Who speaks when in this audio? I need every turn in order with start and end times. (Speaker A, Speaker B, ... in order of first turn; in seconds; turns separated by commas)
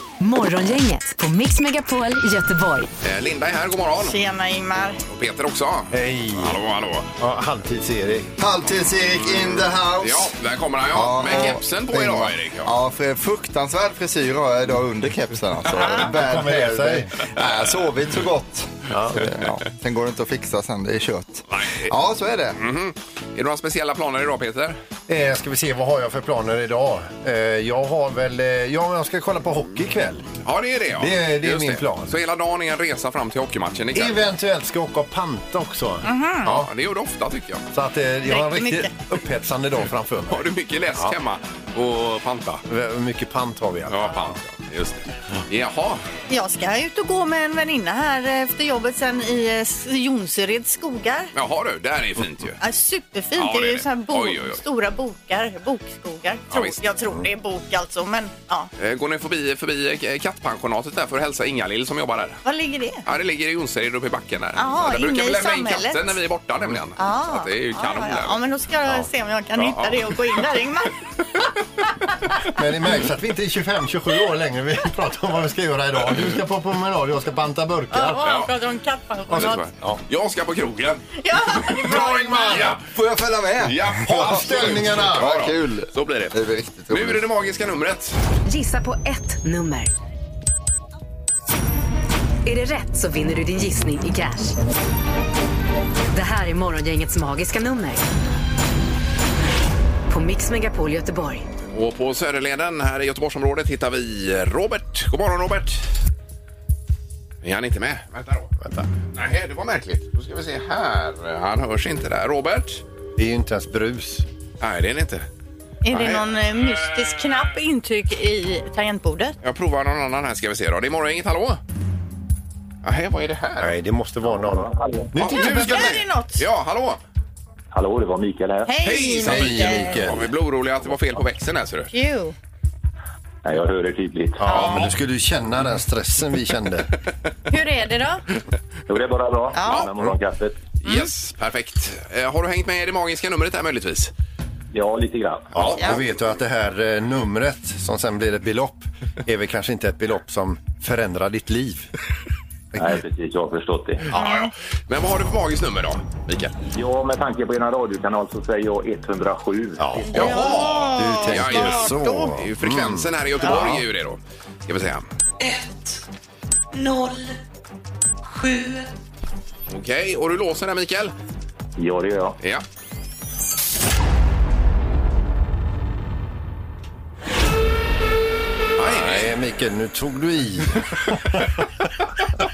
Speaker A: 0.2-2.9, Speaker B: 3.0-4.2, Speaker C: 4.0-5.0, Speaker B: 5.1-7.1, Speaker D: 5.9-6.6, Speaker D: 7.2-8.3, Speaker E: 8.4-10.3, Speaker B: 10.0-12.7, Speaker E: 10.9-22.6, Speaker C: 11.3-11.5, Speaker C: 15.8-16.1, Speaker D: 15.9-17.1, Speaker D: 18.9-19.2, Speaker B: 21.5-21.9, Speaker B: 22.6-24.8, Speaker D: 25.1-30.3, Speaker B: 30.4-34.2, Speaker D: 31.0-32.1, Speaker D: 33.9-36.7, Speaker C: 36.0-36.5, Speaker B: 36.4-37.6, Speaker D: 37.7-41.1, Speaker C: 38.3-38.9, Speaker B: 40.3-42.6, Speaker D: 42.7-44.3, Speaker B: 43.9-46.0, Speaker C: 46.3-51.3, Speaker B: 51.3-52.6, Speaker C: 52.6-58.7, Speaker B: 53.4-54.6, Speaker B: 56.5-56.8, Speaker B: 58.8-62.4, Speaker C: 62.4-63.0, Speaker B: 63.0-68.4, Speaker C: 64.5-66.2, Speaker C: 67.0-70.9, Speaker B: 69.6-70.4, Speaker D: 72.5-78.2, Speaker C: 77.9-79.7, Speaker B: 78.2-78.5, Speaker B: 79.3-81.0, Speaker D: 79.3-80.0, Speaker C: 81.2-82.6, Speaker D: 81.7-82.8, Speaker B: 81.7-81.9, Speaker B: 82.5-82.8, Speaker E: 82.7-87.2, Speaker B: 83.6-86.4, Speaker D: 84.0-85.3, Speaker B: 86.9-88.2, Speaker A: 88.5-89.9, Speaker A: 92.4-94.6, Speaker A: 96.1-98.0, Speaker A: 100.1-101.5, Speaker B: 101.7-105.9, Speaker B: 107.4-108.5, Speaker D: 108.6-108.9, Speaker B: 109.1-112.8, Speaker D: 113.2-114.2, Speaker B: 114.6-115.3, Speaker C: 115.8-119.3, Speaker B: 115.9-117.4, Speaker B: 119.4-121.6, Speaker B: 122.8-123.7, Speaker D: 123.6-126.0, Speaker F: 124.2-125.1, Speaker B: 125.2-127.0, Speaker C: 125.3-126.4, Speaker F: 127.7-128.8, Speaker C: 128.6-130.1, Speaker B: 128.8-131.9, Speaker D: 129.2-130.3, Speaker C: 131.9-132.3, Speaker F: 133.4-134.5, Speaker D: 134.4-136.9, Speaker B: 134.5-134.9, Speaker C: 137.5-138.2, Speaker F: 138.9-140.6, Speaker C: 139.5-139.8, Speaker B: 140.8-144.1, Speaker F: 144.7-145.5, Speaker D: 145.5-151.9, Speaker B: 145.6-145.8, Speaker D: 152.7-153.0, Speaker F: 152.8-154.0, Speaker B: 154.1-156.5, Speaker C: 154.2-154.5, Speaker F: 156.7-160.1, Speaker D: 159.8-163.8, Speaker C: 160.1-162.3, Speaker B: 160.1-165.0, Speaker G: 165.4-166.0, Speaker G: 166.7-167.4, Speaker G: 168.2-168.9, Speaker B: 169.7-171.1, Speaker F: 171.8-172.4, Speaker B: 178.8-179.3, Speaker D: 178.8-181.6